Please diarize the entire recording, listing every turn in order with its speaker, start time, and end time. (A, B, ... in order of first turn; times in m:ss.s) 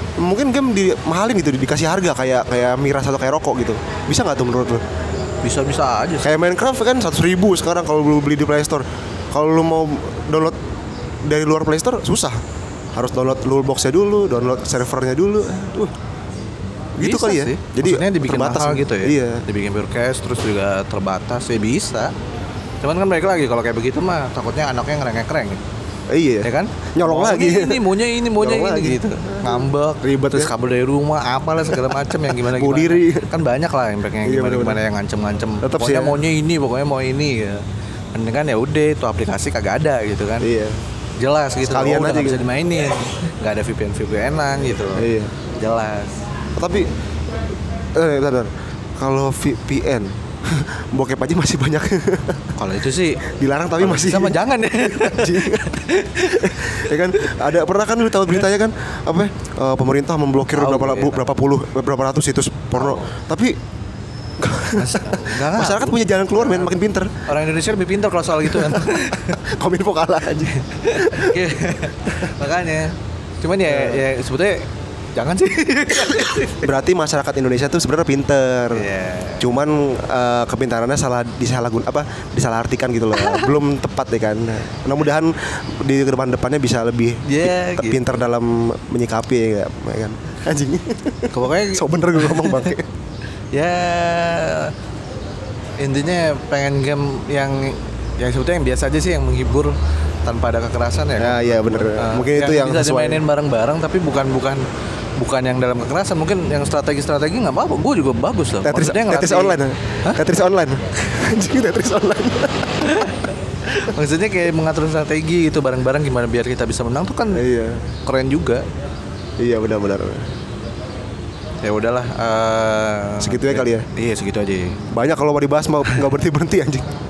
0:00.2-0:04.8 A
0:05.4-0:06.3 B
0:06.2-0:10.6 A
0:11.2-0:12.4 A
0:13.0-0:15.9 A
0:17.0-0:19.4 A
0:17.0-0:22.1 B
0:22.8-0:25.6 B
0:26.1-0:27.9 A
0:26.4-0:37.6 B
0:28.4-0:30.5 A
0:31.7-0:33.3 A
0:34.2-0:34.8 A
0:35.6-0:36.2 A
0:38.1-0:40.5 B
0:40.4-0:40.8 A
0:41.2-0:46.2 B
0:41.6-0:42.5 A
0:45.0-0:45.3 A
0:46.6-0:46.9 A
0:48.0-0:52.6 A
0:52.6-0:53.2 B
0:53.3-0:55.7 A
0:53.8-0:57.4 B
0:56.3-1:03.6 A
1:00.6-1:01.3 B
1:02.8-1:03.0 B
1:04.4-1:07.2 A
1:04.8-1:06.7 B
1:07.3-1:09.4 B
1:08.6-1:11.4 A
1:10.5-1:16.7 B
1:13.7-1:14.0 A
1:16.6-1:18.9 A
1:18.7-1:19.5 B
1:19.4-1:32.9 A
1:23.2-1:23.5 B
1:27.2-1:28.1 B
1:31.3-1:32.7 B
1:33.5-1:34.7 B
1:35.8-1:44.6 B
1:41.2-1:43.2 A
1:45.2-1:50.2 B
1:48.6-1:52.9 A
1:52.8-1:57.4 B
1:57.3-1:57.8 A
1:58.0-1:58.7 B
1:59.4-2:00.3 A
2:01.6-2:04.8 B
2:03.2-2:03.9 A
2:04.9-2:06.8 A